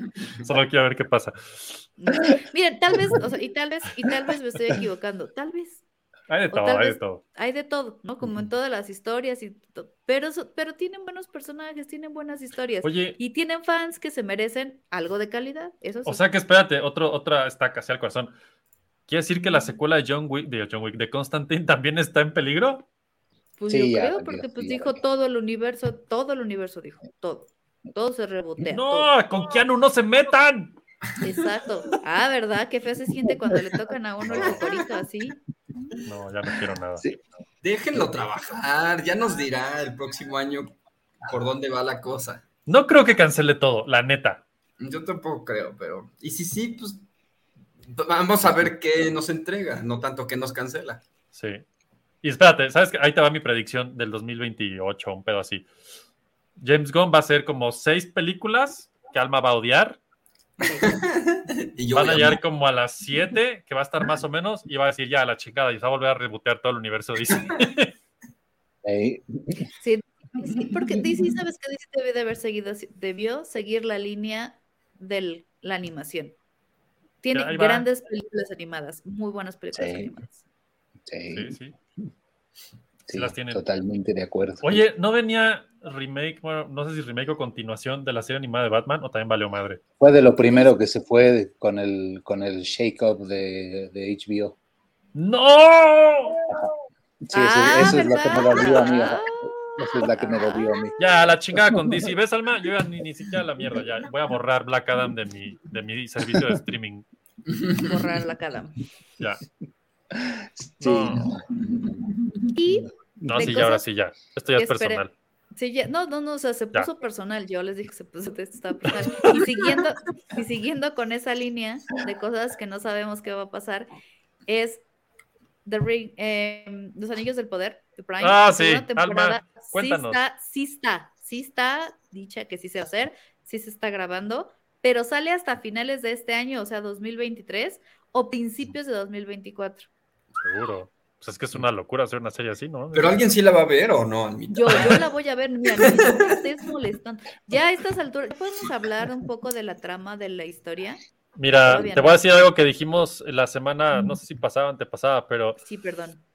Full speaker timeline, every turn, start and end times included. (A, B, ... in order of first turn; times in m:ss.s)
0:00.4-0:01.8 A
0:02.0-0:05.8 B
0:06.3-0:07.2 A
0:06.5-0:16.2 B
0:12.8-0:13.2 A
0:16.1-0:18.3 A
0:19.1-0:22.8 A
0:19.4-0:19.8 B
0:23.6-0:29.1 B
0:23.7-0:25.0 C
0:28.7-0:30.8 A
0:31.2-0:35.4 B
0:33.5-0:33.8 C
0:34.3-0:34.6 A
0:36.0-0:37.0 A
0:36.5-0:37.2 C
0:37.6-0:42.4 D
0:37.9-0:38.2 C
0:42.7-0:44.4 A
0:44.8-0:47.0 D
0:47.9-0:51.0 D
0:51.3-0:51.6 A
0:52.2-0:55.7 A
0:56.6-1:00.0 A
1:00.6-1:00.9 B
1:00.6-1:02.4 D
1:01.9-1:07.9 A
1:08.8-1:09.6 C
1:09.8-1:16.4 B
1:17.2-1:20.4 B
1:17.3-1:17.9 A
1:19.7-1:20.1 C
1:21.1-1:21.6 C
1:21.3-1:21.8 A
1:23.1-1:24.8 C
1:23.1-1:23.6 A
1:24.6-1:29.8 A
1:30.0-1:34.6 C
1:35.2-1:36.4 A
1:37.3-1:41.0 C
1:37.3-1:41.1 B
1:37.8-1:38.0 A
1:41.0-1:47.1 A
1:41.5-1:42.1 C
1:47.5-1:47.9 D
1:47.8-1:48.8 B
1:50.2-1:52.1 C
1:50.8-1:51.3 A
1:52.5-1:53.9 B
1:52.8-1:53.4 C
1:53.2-1:55.1 A
1:54.6-2:03.9 B
1:58.9-1:59.5 A
2:04.5-2:04.8 B
2:05.6-2:19.9 B
2:08.2-2:10.2 A
2:20.4-2:23.2 A
2:22.9-2:25.1 D
2:24.5-2:31.0 B
2:25.8-2:26.3 D
2:31.4-2:35.6 A
2:31.5-2:32.4 B
2:35.6-2:36.2 B